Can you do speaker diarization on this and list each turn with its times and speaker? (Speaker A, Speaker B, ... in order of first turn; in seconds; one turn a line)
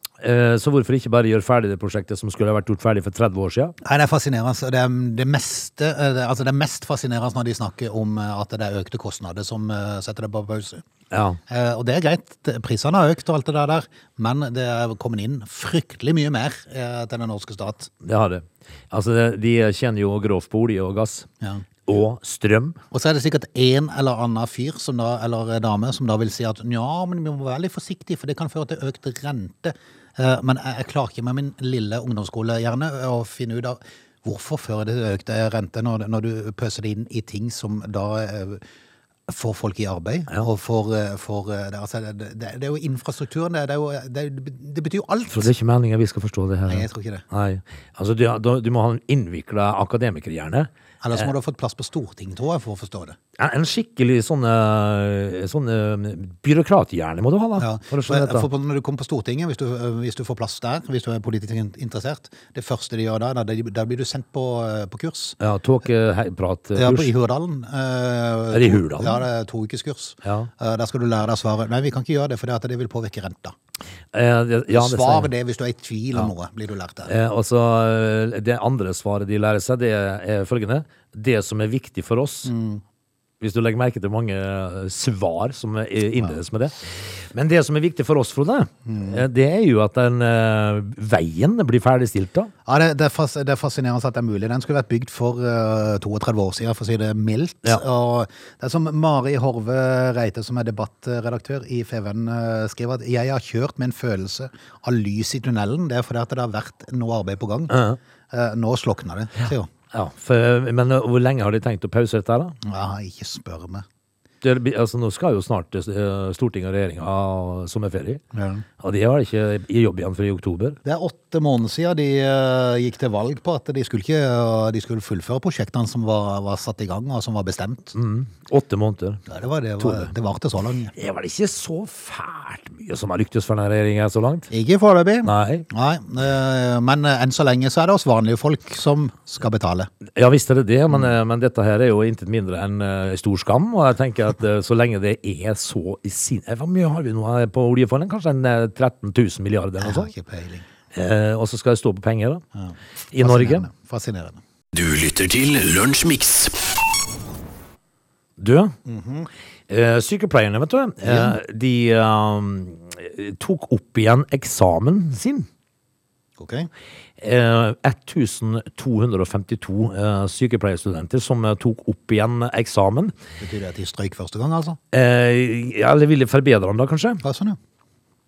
Speaker A: 0.2-3.8
Speaker B: 3.8-10.8
Speaker A: 11.1-11.4
Speaker B: 11.5-17.9
Speaker A: 18.0-21.3
Speaker A: 21.9-22.8
Speaker B: 22.9-38.6
Speaker B: 39.3-45.5
Speaker A: 45.3-51.3
Speaker B: 46.7-47.2
Speaker B: 51.0-53.2
Speaker A: 53.4-58.5
Speaker B: 57.6-65.4
Speaker A: 65.4-67.1
Speaker B: 66.8-73.5
Speaker A: 68.5-69.2
Speaker A: 70.2-70.5
Speaker A: 74.1-75.3
Speaker B: 74.7-77.1
Speaker A: 77.1-82.5
Speaker B: 82.4-82.8
Speaker A: 83.4-92.5
Speaker B: 88.9-89.2
Speaker B: 92.7-107.7
Speaker A: 107.7-108.0
Speaker B: 108.3-109.7
Speaker A: 109.9-112.6
Speaker B: 112.6-113.8
Speaker A: 114.4-118.2
Speaker B: 118.3-118.6
Speaker A: 118.8-120.8
Speaker B: 120.8-127.9
Speaker A: 127.9-129.2
Speaker B: 129.3-130.9
Speaker A: 129.8-130.1
Speaker A: 130.9-134.5
Speaker B: 134.5-139.9
Speaker A: 135.2-135.7
Speaker A: 140.1-150.1
Speaker B: 149.8-150.7
Speaker A: 150.9-152.4
Speaker B: 152.5-154.4
Speaker A: 153.1-153.7
Speaker C: 154.7-156.7
Speaker A: 158.4-158.7
Speaker B: 158.8-159.3
Speaker A: 159.7-165.5
Speaker B: 161.0-161.3
Speaker B: 166.4-166.7
Speaker A: 167.2-173.1
Speaker B: 173.4-174.8
Speaker A: 174.9-177.2
Speaker B: 177.2-177.6